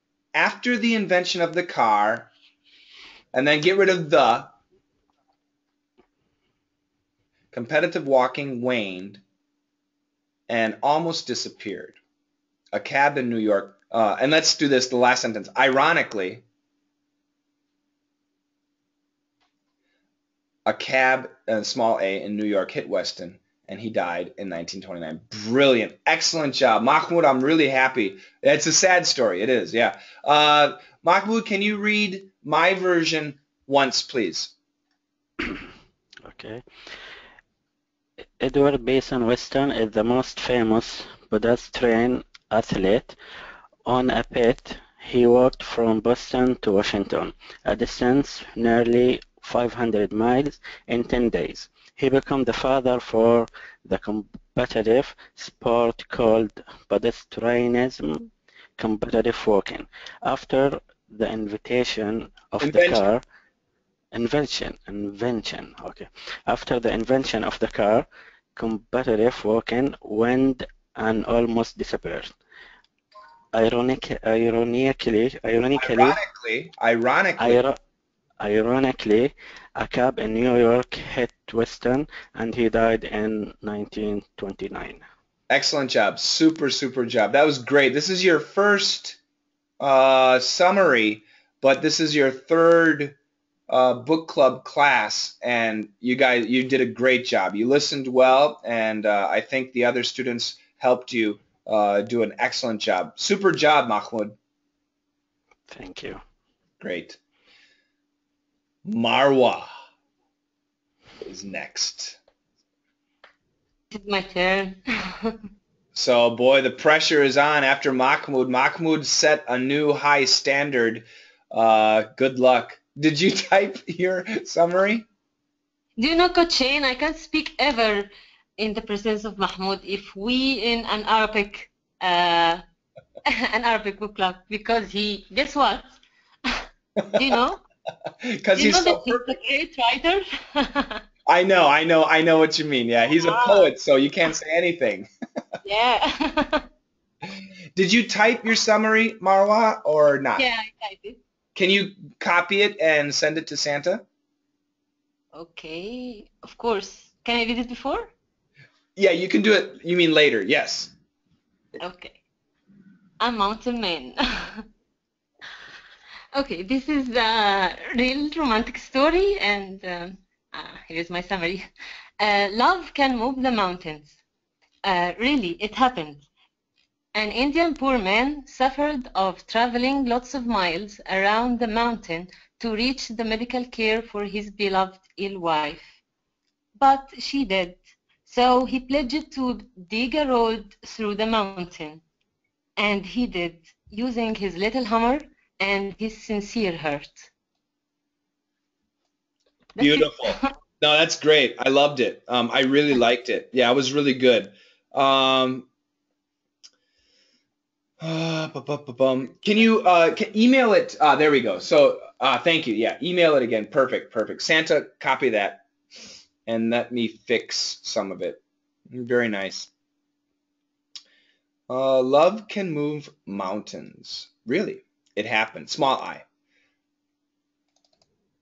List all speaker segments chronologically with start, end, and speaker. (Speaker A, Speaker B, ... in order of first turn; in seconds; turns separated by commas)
Speaker A: 0.3-2.3, Speaker A: 3.3-4.5, Speaker A: 7.5-9.2, Speaker A: 10.5-12.0, Speaker A: 12.7-16.4, Speaker A: 20.6-34.5, Speaker B: 36.2-36.6, Speaker B: 38.4-43.1, Speaker B: 43.9-63.2, Speaker A: 62.6-63.0, Speaker B: 64.1-72.3, Speaker B: 73.5-76.2, Speaker A: 75.7-77.6, Speaker B: 77.4-77.8, Speaker B: 78.4-85.0, Speaker A: 85.5-89.2, Speaker A: 89.8-93.2, Speaker A: 93.7-104.3, Speaker B: 105.7-106.2, Speaker A: 106.8-107.2, Speaker A: 108.8-109.7, Speaker A: 111.2-112.2, Speaker C: 113.9-115.3, Speaker A: 115.9-125.0, Speaker C: 126.0-132.6, Speaker C: 133.3-135.9, Speaker C: 137.1-137.6, Speaker A: 138.2-139.4, Speaker C: 138.6-141.0, Speaker A: 141.2-145.1, Speaker C: 143.2-143.7, Speaker C: 145.7-146.7, Speaker A: 147.8-150.4, Speaker C: 150.3-151.2, Speaker A: 151.5-154.0, Speaker C: 155.3-158.1, Speaker A: 158.9-160.9, Speaker C: 161.8-162.2, Speaker C: 163.2-164.6, Speaker C: 166.3-171.7, Speaker C: 172.2-174.2, Speaker C: 174.8-176.2, Speaker C: 177.1-185.9, Speaker C: 186.8-192.0, Speaker C: 192.8-197.3, Speaker C: 199.8-200.5, Speaker A: 199.8-205.7, Speaker A: 208.0-215.6, Speaker A: 216.4-219.7, Speaker A: 221.7-226.2